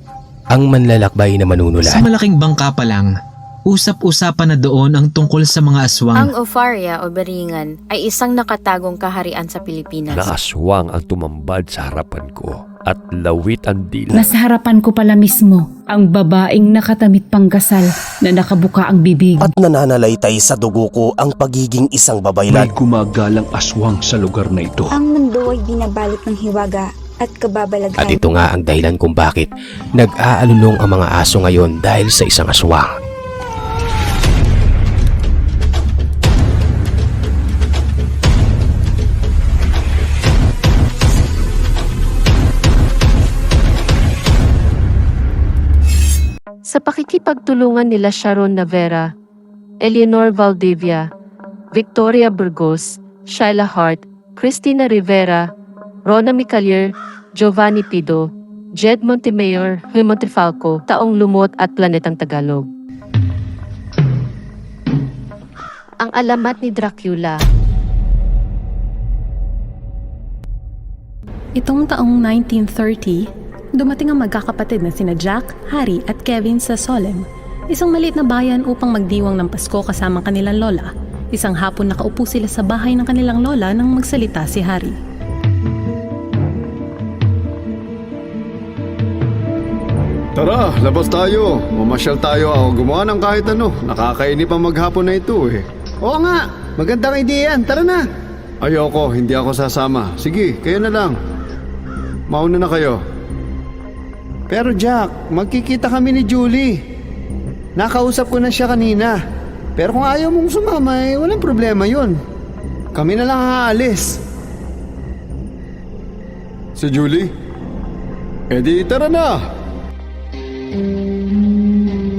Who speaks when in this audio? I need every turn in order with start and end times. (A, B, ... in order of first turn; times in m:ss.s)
0:00.5-0:02.1 A
0:01.8-0:03.1 B
0:03.7-0:06.3 B
0:06.2-0:10.3 C
0:10.2-0:14.2 D
0:14.1-0:19.5 E
0:19.5-0:22.7 F
0:22.5-0:24.9 G
0:24.9-0:28.4 H
0:28.0-0:32.9 A
0:46.7-0:49.1 I
0:49.8-0:51.0 I
0:51.7-0:55.4 I
0:56.1-0:58.2 I
0:58.8-1:02.7 I
1:06.0-1:07.4 I
1:11.6-1:25.0 J
1:30.4-1:38.0 K
1:38.6-1:41.2 K
1:42.3-1:43.0 K
1:44.5-1:46.8 K
1:47.8-1:49.2 K
1:49.8-1:52.2 K
1:53.0-1:54.2 K
1:56.8-1:57.3 K
1:58.5-1:59.4 K